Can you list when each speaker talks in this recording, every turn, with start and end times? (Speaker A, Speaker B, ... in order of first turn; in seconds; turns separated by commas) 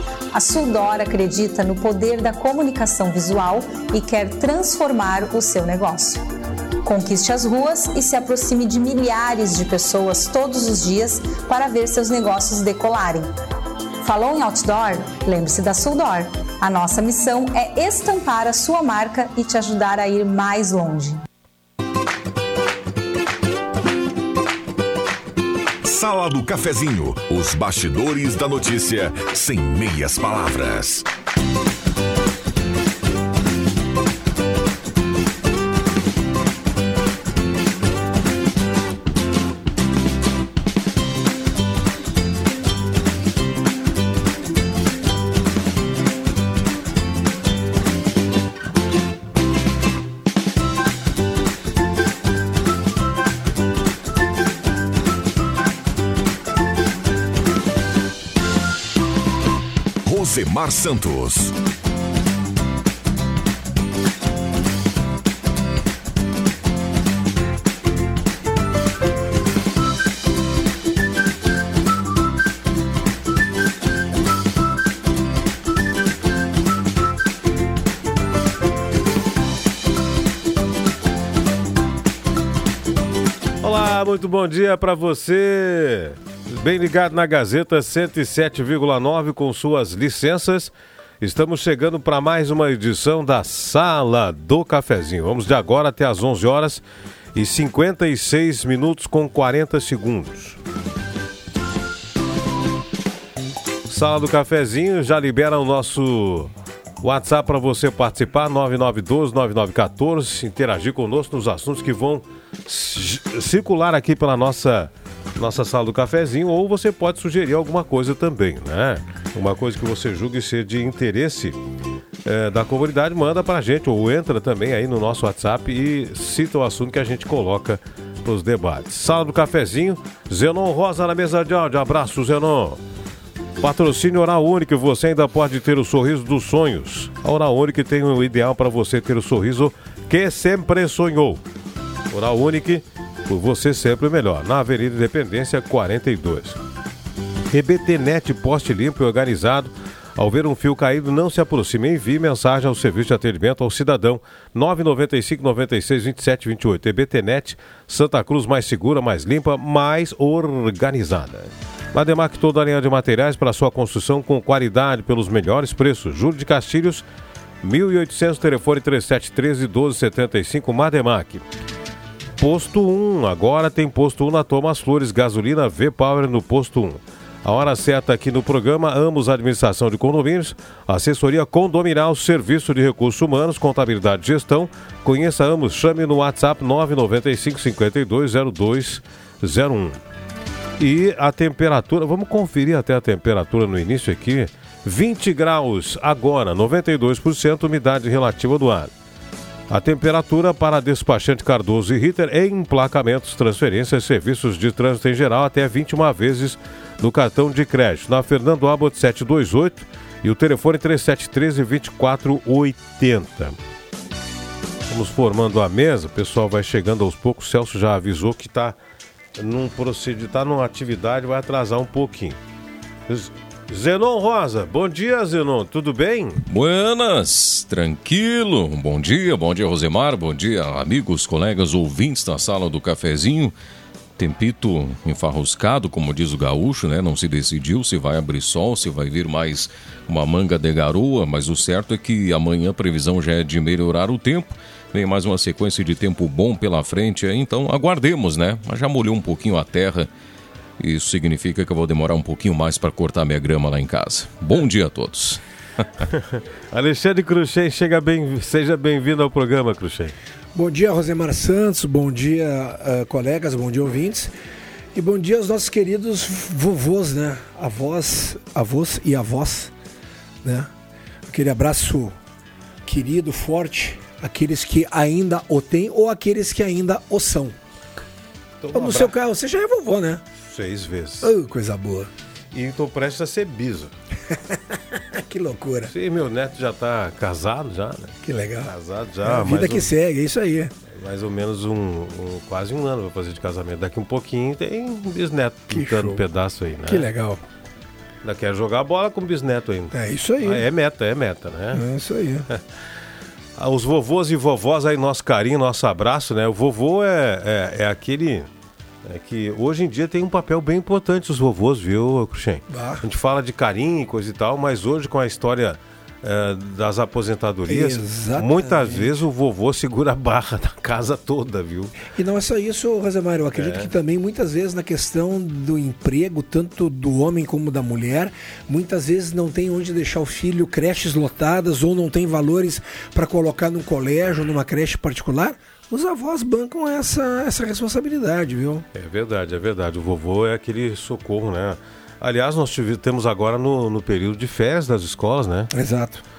Speaker A: 0.3-6.2, Speaker A: 6.8-13.3, Speaker A: 14.0-21.2, Speaker B: 25.8-31.1, Speaker B: 60.0-61.5, Speaker C: 83.6-96.8, Speaker C: 97.3-100.6, Speaker C: 103.9-106.5, Speaker C: 107.0-121.6, Speaker C: 122.2-132.8, Speaker C: 133.6-141.4, Speaker C: 142.1-146.6, Speaker C: 147.5-167.0, Speaker C: 167.6-171.4, Speaker C: 172.4-190.0, Speaker C: 190.8-198.9, Speaker C: 199.7-213.6, Speaker C: 214.9-218.8, Speaker C: 219.4-222.4, Speaker C: 223.1-226.4, Speaker D: 226.5-233.5, Speaker D: 234.2-250.1, Speaker D: 250.8-255.4, Speaker C: 256.1-260.1, Speaker E: 260.6-264.3, Speaker E: 264.9-269.7, Speaker E: 270.4-270.7, Speaker E: 271.3-272.1, Speaker E: 272.9-277.6, Speaker C: 278.6-279.1, Speaker E: 278.7-280.2, Speaker C: 280.4-281.3, Speaker E: 281.2-282.1, Speaker C: 282.5-283.9, Speaker E: 285.2-285.9, Speaker C: 285.9-289.9, Speaker E: 288.2-288.7, Speaker E: 289.2-290.7, Speaker C: 290.9-297.1, Speaker E: 295.7-296.2, Speaker E: 296.9-297.4, Speaker C: 298.2-301.8, Speaker E: 299.9-300.6, Speaker E: 301.7-302.5, Speaker C: 303.6-308.5, Speaker C: 309.1-321.9, Speaker E: 312.7-313.0, Speaker E: 317.7-319.1, Speaker E: 322.2-338.8, Speaker C: 323.5-323.9, Speaker C: 338.9-345.7, Speaker E: 345.7-346.2